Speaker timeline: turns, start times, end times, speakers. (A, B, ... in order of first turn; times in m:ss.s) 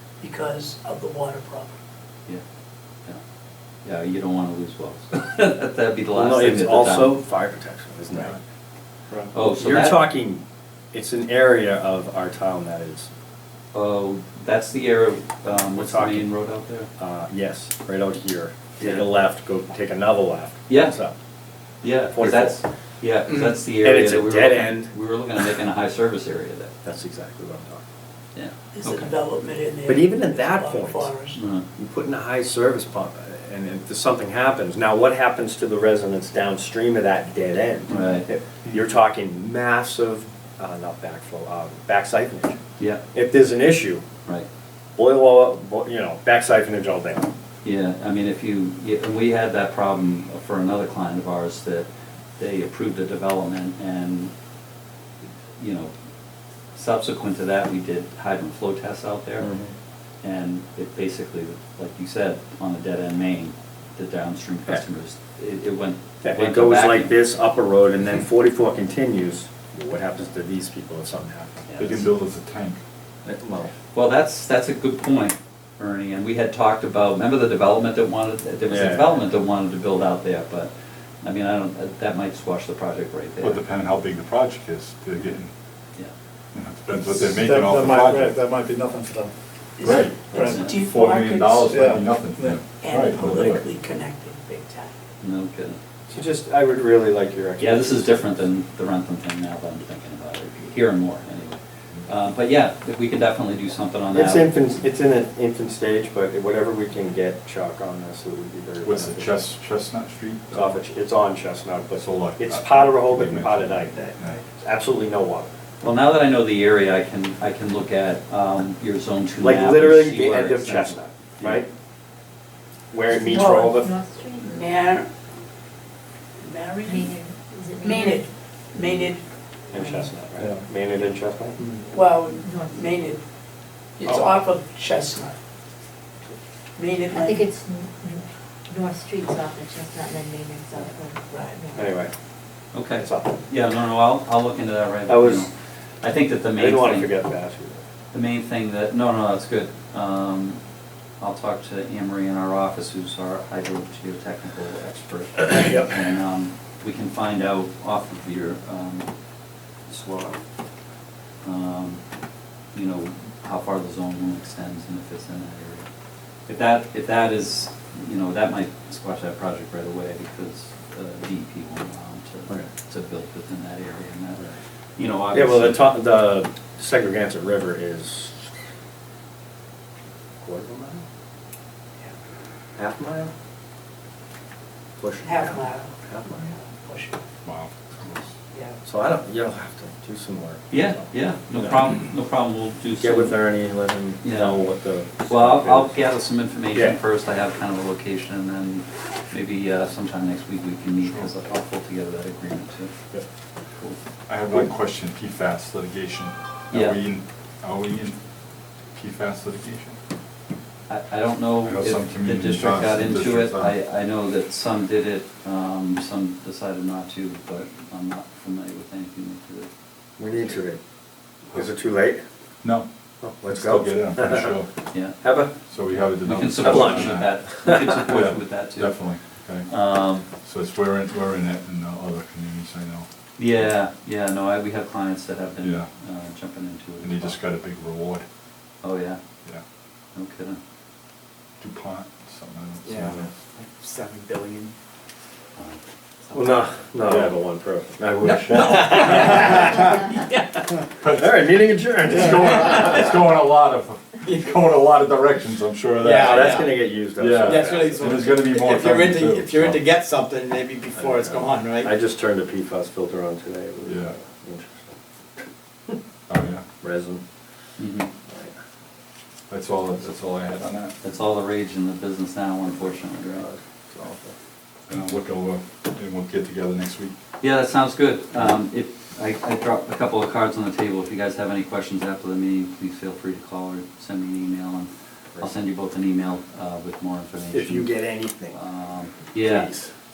0:00.2-0:01.8 A
0:03.8-0:07.1 B
0:06.1-0:08.4 C
0:09.3-0:10.1 B
0:09.4-0:13.1 C
0:13.7-0:16.9 B
0:15.8-0:16.3 C
0:17.0-0:21.2 C
0:18.8-0:19.1 B
0:20.7-0:21.0 B
0:21.8-0:26.7 B
0:22.1-0:22.6 C
0:23.8-0:24.9 C
0:26.8-0:27.8 C
0:28.4-0:29.0 B
0:28.7-0:31.4 A
0:29.9-0:31.1 C
0:31.3-0:31.7 B
0:31.8-0:42.6 C
0:37.9-0:38.3 B
0:43.1-0:44.1 C
0:45.0-0:47.3 C
0:47.6-0:51.9 B
0:52.4-0:54.3 B
0:55.6-0:55.9 B
0:56.7-0:59.5 B
0:59.4-0:59.7 C
1:00.2-1:07.2 B
1:06.2-1:12.0 C
1:11.7-1:12.1 B
1:11.8-1:12.8 D
1:13.2-1:13.7 C
1:13.9-1:23.6 B
1:18.7-1:19.2 C
1:23.4-1:25.5 D
1:26.5-1:28.3 D
1:27.1-1:29.3 E
1:29.8-1:32.0 A
1:29.8-1:33.6 D
1:30.3-1:30.8 B
1:30.4-1:30.7 E
1:31.7-1:32.6 E
1:32.8-1:35.0 A
1:35.2-1:35.8 B
1:36.1-1:38.3 C
1:37.6-1:44.5 B
1:44.1-1:49.4 C
1:48.8-1:50.8 D
1:50.5-1:55.5 C
1:52.0-1:54.4 D
1:55.8-2:01.6 B
1:59.4-2:01.7 C
2:02.9-2:04.0 C
2:03.1-2:04.6 F
2:03.3-2:03.7 A
2:04.4-2:05.1 A
2:06.4-2:07.2 A
2:06.8-2:08.3 F
2:07.8-2:09.2 A
2:09.7-2:11.6 C
2:11.9-2:13.2 A
2:12.4-2:12.8 F
2:14.0-2:15.4 A
2:16.8-2:17.5 A
2:17.1-2:21.8 F
2:21.3-2:21.6 A
2:21.8-2:22.1 C
2:22.7-2:27.1 B
2:22.9-2:23.4 C
2:25.1-2:25.5 C
2:26.6-2:27.8 C
2:28.1-2:30.6 B
2:31.2-2:39.1 B
2:35.6-2:35.9 C
2:39.9-2:40.4 B
2:41.4-2:42.0 B
2:42.7-2:45.9 B
2:46.5-2:55.9 B
2:55.3-2:58.5 C
3:00.4-3:01.0 C
3:02.8-3:03.3 C
3:05.0-3:06.5 C
3:05.2-3:05.9 A
3:06.4-3:07.2 A
3:07.4-3:08.3 D
3:08.5-3:08.8 A
3:08.8-3:11.8 C
3:10.7-3:13.4 B
3:13.0-3:16.0 C
3:14.2-3:14.6 B
3:15.2-3:23.0 B
3:21.0-3:21.3 D
3:24.3-3:28.2 D
3:28.9-3:30.0 D
3:30.9-3:39.7 B
3:31.6-3:33.8 D
3:40.2-3:40.8 C
3:40.3-3:40.6 B
3:41.5-3:42.2 C
3:43.2-3:44.6 C
3:43.4-3:44.7 D
3:44.9-3:45.2 B
3:45.2-3:45.5 C
3:45.7-3:47.4 D
3:46.2-3:49.0 B
3:46.6-3:48.0 C
3:48.1-3:49.7 D
3:49.7-3:50.3 B
3:50.4-3:53.1 D
3:53.4-3:57.4 B
3:55.6-3:55.9 D
3:57.0-3:58.2 D
3:58.8-3:59.2 B
4:00.1-4:00.6 B
4:01.6-4:03.3 D
4:02.8-4:04.7 E
4:06.3-4:06.6 E
4:06.3-4:10.1 C
4:07.1-4:07.3 D
4:08.2-4:10.5 E
4:11.0-4:11.5 D
4:11.1-4:13.0 C
4:12.1-4:16.5 D
4:12.5-4:13.1 E
4:16.0-4:18.2 C
4:16.0-4:16.7 E
4:17.2-4:19.9 D
4:17.4-4:21.9 E
4:21.1-4:24.9 C
4:23.8-4:24.1 D
4:26.3-4:26.6 D
4:26.8-4:27.2 C
4:27.8-4:28.1 B
4:29.5-4:31.0 D
4:31.0-4:33.6 B
4:33.9-4:34.3 C
4:34.9-4:37.2 D
4:37.4-4:47.9 B
4:47.5-4:48.6 C
4:48.5-4:49.7 B
4:49.4-4:49.9 C